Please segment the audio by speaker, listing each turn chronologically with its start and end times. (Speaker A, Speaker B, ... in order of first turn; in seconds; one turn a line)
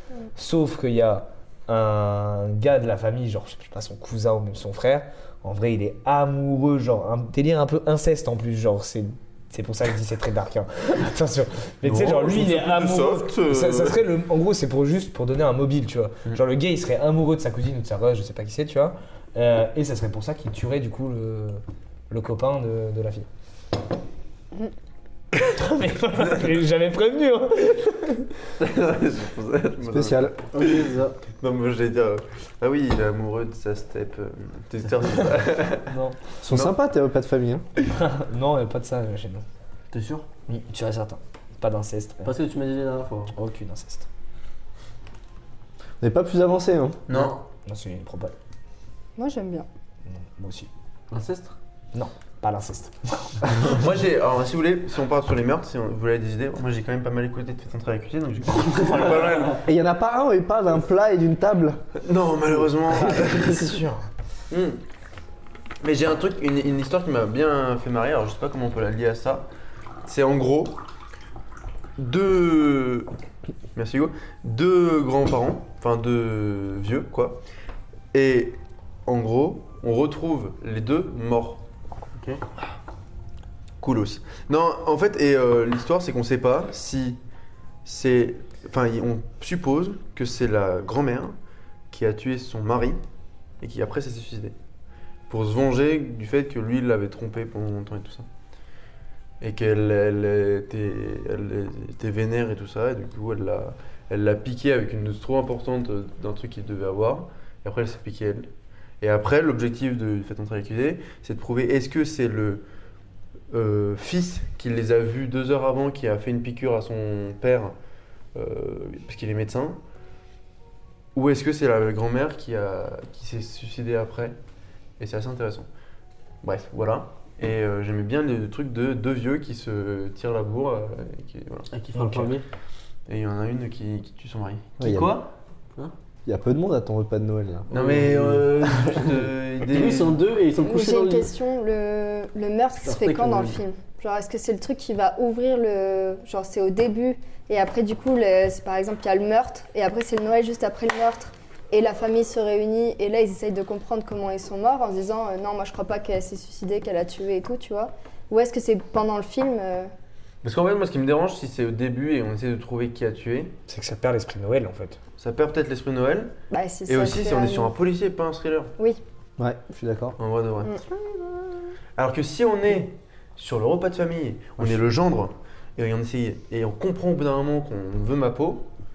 Speaker A: 0.4-23.3
Speaker B: 11.8-14.0
Speaker A: 25.3-28.3
Speaker B: 28.6-30.9
Speaker C: 29.9-30.4
Speaker D: 30.5-31.2
Speaker B: 31.4-35.9
Speaker A: 35.9-36.2
Speaker C: 36.4-37.6
Speaker B: 36.5-36.7
Speaker A: 37.8-39.4
Speaker D: 39.9-40.3
Speaker A: 40.5-42.3
Speaker D: 42.2-43.3
Speaker A: 43.3-44.1
Speaker C: 46.0-47.0
Speaker B: 47.1-47.4
Speaker A: 47.7-48.3
Speaker E: 49.2-49.7
Speaker A: 50.1-50.7
Speaker D: 51.1-51.6
Speaker A: 51.9-53.7
Speaker B: 53.5-59.6
Speaker C: 59.6-61.8
Speaker B: 62.0-63.7
Speaker A: 63.0-64.0
Speaker C: 63.3-63.8
Speaker B: 64.5-64.8
Speaker B: 65.8-69.5
Speaker B: 70.0-70.8
Speaker B: 72.0-73.1
Speaker B: 73.7-77.4
Speaker B: 78.1-81.6
Speaker D: 82.2-82.4
Speaker B: 83.8-87.2
Speaker B: 87.8-91.3
Speaker B: 91.9-93.0
Speaker B: 93.6-94.5
Speaker B: 95.3-98.3
Speaker B: 99.4-108.5
Speaker B: 109.0-112.6
Speaker B: 113.5-117.7
Speaker B: 118.3-119.8
Speaker B: 121.1-124.4
Speaker B: 125.0-125.7
Speaker B: 126.4-131.7
Speaker D: 131.7-132.4
Speaker A: 131.9-132.3
Speaker B: 133.1-135.3
Speaker C: 134.8-135.2
Speaker C: 136.3-137.7
Speaker B: 137.7-140.2
Speaker D: 137.7-139.0
Speaker C: 138.6-138.9
Speaker D: 139.7-141.3
Speaker E: 140.6-159.9
Speaker D: 142.9-143.6
Speaker B: 160.4-163.6
Speaker A: 163.7-165.0
Speaker B: 165.2-166.3
Speaker E: 166.5-167.7
Speaker B: 166.9-168.7
Speaker C: 169.4-170.2
Speaker B: 170.2-170.8
Speaker B: 171.9-178.6